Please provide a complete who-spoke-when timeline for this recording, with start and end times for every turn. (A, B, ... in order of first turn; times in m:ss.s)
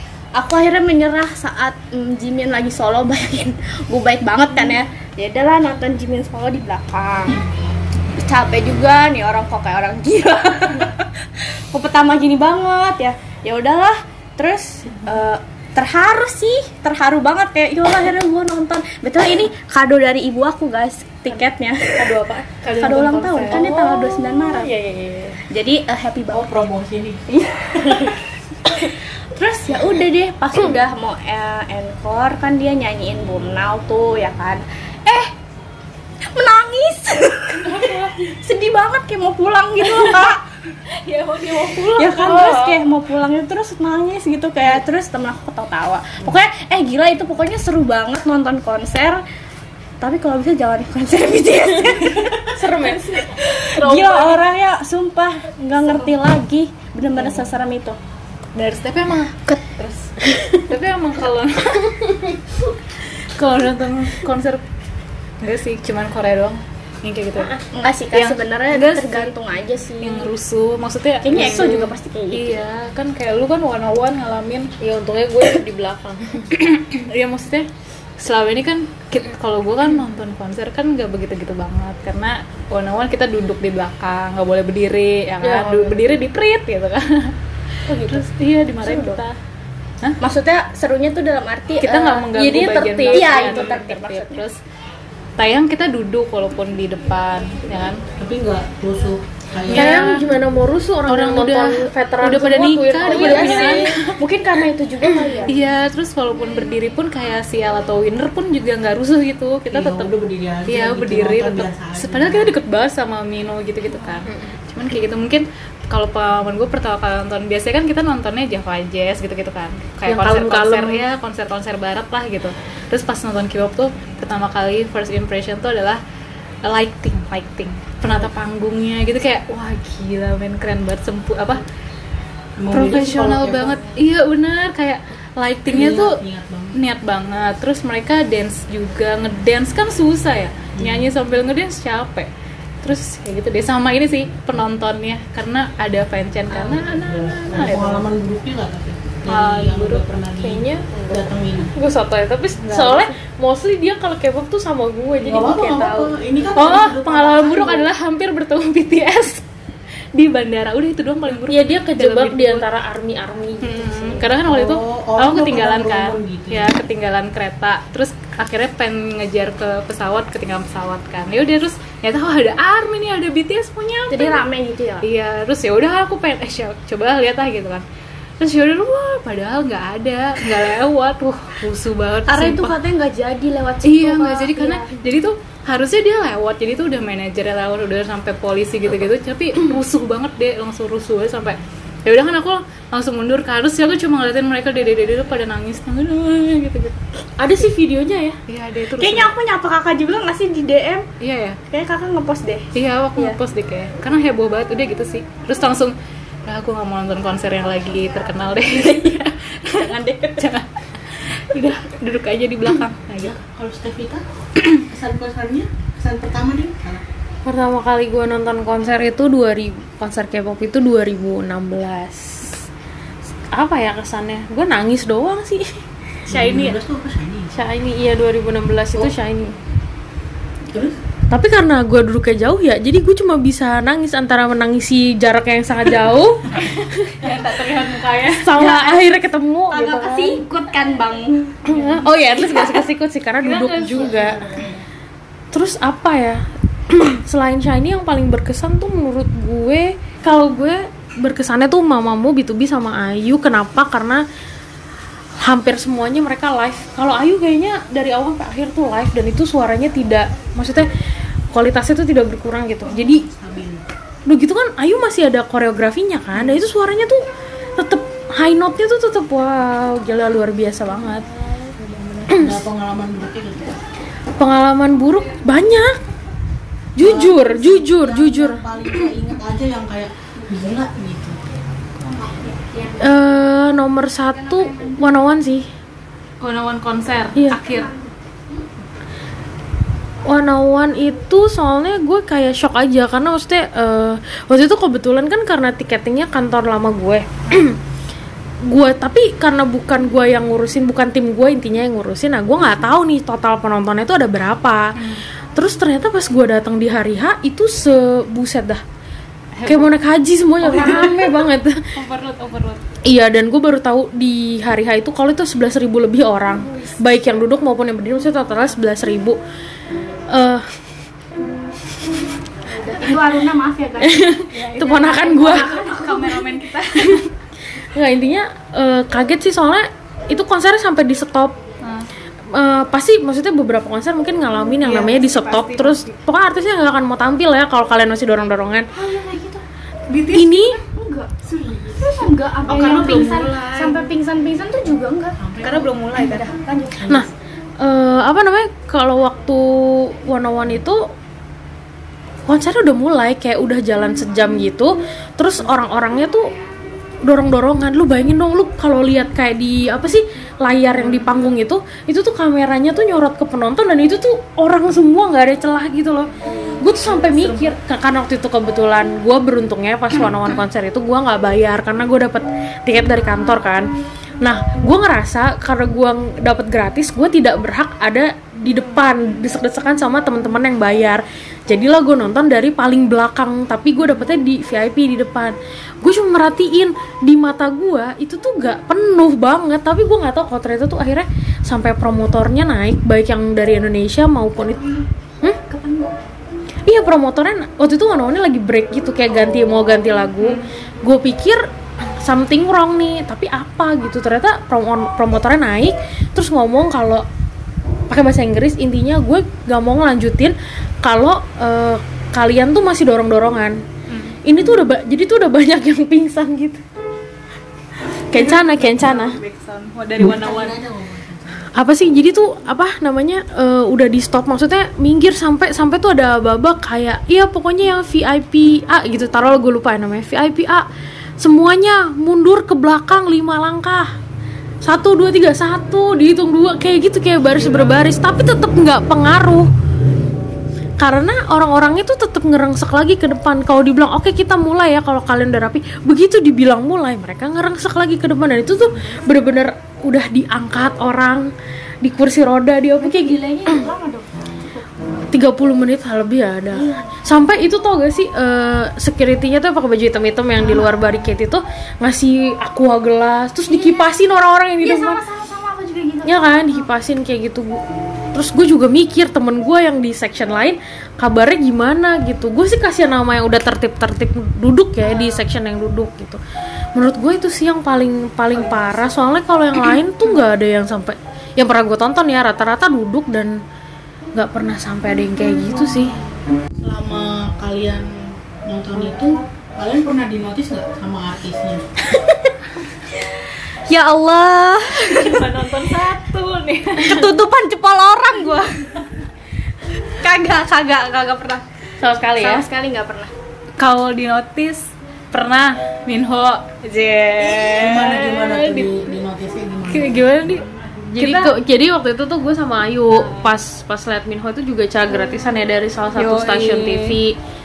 0:00.3-0:07.4 A
0:08.1-0:22.2 A
0:21.9-0:22.5 B
0:22.6-0:23.8 C
0:22.7-0:24.7 A
0:23.4-0:25.4 B
0:25.5-0:26.5 A
0:26.3-0:28.1 D
0:27.3-0:35.3 A
0:36.3-0:40.4 A
0:37.6-0:38.1 C
0:40.9-0:42.7 C
0:41.8-0:49.2 A
0:42.3-0:42.8 B
0:50.0-0:58.0 A
0:52.5-0:53.2 B
0:53.0-0:54.4 C
0:55.8-0:56.1 C
0:57.1-0:57.5 C
0:58.5-1:02.0 C
1:03.4-1:04.6 C
1:05.4-1:07.5 C
1:07.7-1:10.3 A
1:08.1-1:09.4 C
1:10.0-1:14.7 C
1:11.2-1:12.6 A
1:11.3-1:11.8 B
1:14.8-1:16.5 B
1:16.5-1:17.7 C
1:18.2-1:27.3 C
1:25.4-1:26.1 B
1:27.9-1:28.3 A
1:27.9-1:29.3 C
1:28.8-1:29.2 A
1:30.2-1:32.2 A
1:31.8-1:34.6 C
1:31.8-1:33.6 B
1:33.1-1:34.4 A
1:35.4-1:38.0 C
1:38.2-1:40.2 D
1:39.7-1:40.3 C
1:39.7-1:44.0 B
1:41.1-1:44.2 C
1:43.0-1:45.6 A
1:45.0-1:45.4 B
1:45.4-1:50.1 C
1:49.7-1:52.5 D
1:50.7-1:54.3 C
1:54.3-1:54.6 B
1:54.7-1:55.0 A
1:54.9-2:06.0 C
2:00.0-2:01.0 B
2:06.6-2:11.6 C
2:12.6-2:13.8 D
2:12.7-2:16.2 C
2:15.7-2:16.8 D
2:16.7-2:22.3 C
2:20.8-2:21.1 D
2:22.8-2:28.0 C
2:26.9-2:31.7 D
2:29.3-2:30.0 C
2:30.4-2:36.1 B
2:32.6-2:33.1 D
2:35.2-2:37.8 D
2:36.5-2:39.4 C
2:40.1-2:42.6 C
2:41.4-2:44.2 B
2:43.6-2:54.4 C
2:44.4-2:46.8 D
2:54.1-2:55.0 A
2:55.0-2:57.8 C
2:58.4-3:02.8 C
3:02.3-3:05.0 A
3:03.8-3:17.0 C
3:17.4-3:18.4 B
3:18.5-3:19.3 C
3:19.0-3:21.1 A
3:21.2-3:21.6 C
3:21.7-3:23.4 A
3:22.7-3:33.4 C
3:28.6-3:30.6 A
3:33.2-3:34.2 D
3:34.9-3:37.0 D
3:37.4-3:42.6 B
3:43.5-3:45.8 B
3:46.2-3:47.5 D
3:46.3-3:46.8 C
3:47.5-3:49.6 B
3:50.7-3:51.0 D
3:51.3-3:56.9 B
3:57.0-3:58.6 C
3:58.4-4:00.4 B
3:58.5-3:59.1 A
3:59.7-4:02.8 A
4:01.6-4:04.4 B
4:03.4-4:04.4 C
4:04.1-4:04.8 D
4:05.5-4:14.2 B
4:15.4-4:20.9 B
4:21.5-4:23.2 B
4:22.9-4:23.9 D
4:24.3-4:27.2 B
4:27.8-4:31.2 B
4:32.3-4:33.8 D
4:32.3-4:32.6 B
4:34.4-4:36.0 B
4:37.0-4:38.6 B
4:37.0-4:41.4 D
4:42.0-4:43.1 A
4:43.0-4:45.7 B
4:46.4-4:47.9 C
4:47.5-4:48.1 A
4:50.2-4:57.8 B
4:58.7-5:04.8 B
5:05.0-5:05.2 C
5:05.6-5:08.8 B
5:09.5-5:09.9 C
5:09.6-5:11.8 B
5:10.6-5:11.3 C
5:12.0-5:12.8 C
5:13.0-5:19.4 B
5:20.3-5:20.6 B
5:22.6-5:26.6 A
5:24.0-5:25.8 B
5:24.5-5:27.2 C
5:27.0-5:27.2 B
5:27.8-5:31.5 B
5:31.8-5:32.1 C
5:32.5-5:38.9 B
5:34.8-5:36.1 C
5:39.0-5:39.6 A
5:40.1-5:40.8 C
5:40.3-5:40.8 B
5:40.8-5:45.4 A
5:41.7-5:42.0 D
5:42.6-5:44.1 C
5:45.4-5:45.9 D
5:45.6-5:46.5 C
5:46.1-5:47.2 A
5:47.0-5:47.2 D
5:47.8-5:51.1 B
5:52.5-5:56.5 B
5:57.2-6:13.9 B
6:06.6-6:07.7 C
6:14.4-6:34.8 B
6:34.6-6:36.2 A
6:36.8-6:47.2 B
6:40.4-6:40.7 C
6:48.1-6:53.8 B
6:54.1-6:54.4 C
6:54.4-6:56.8 B
6:58.3-6:59.4 B
6:58.3-7:00.8 C
7:00.2-7:01.7 D
7:01.7-7:10.9 B
7:11.4-7:14.1 B
7:14.8-7:19.7 B
7:17.5-7:17.9 C
7:21.0-7:31.5 B
7:32.0-7:33.8 B
7:33.0-7:34.9 A
7:35.3-7:45.2 B
7:36.7-7:37.2 A
7:40.6-7:41.0 A
7:43.7-7:44.1 A
7:44.8-7:46.5 A
7:46.2-7:56.4 B
7:55.0-7:55.4 A
7:56.9-8:03.6 B
7:58.5-7:59.1 C
8:04.3-8:06.2 B
8:06.8-8:11.8 D
8:12.1-8:12.5 A
8:13.9-8:15.5 A
8:15.0-8:17.3 C
8:17.0-8:18.9 A
8:20.0-8:21.6 A
8:22.0-8:22.6 B
8:22.4-8:23.3 A
8:23.8-8:29.0 C
8:27.7-8:30.4 D
8:29.9-8:30.6 C
8:31.1-8:37.4 B
8:31.2-8:31.5 C
8:33.1-8:33.6 C
8:36.2-8:37.2 C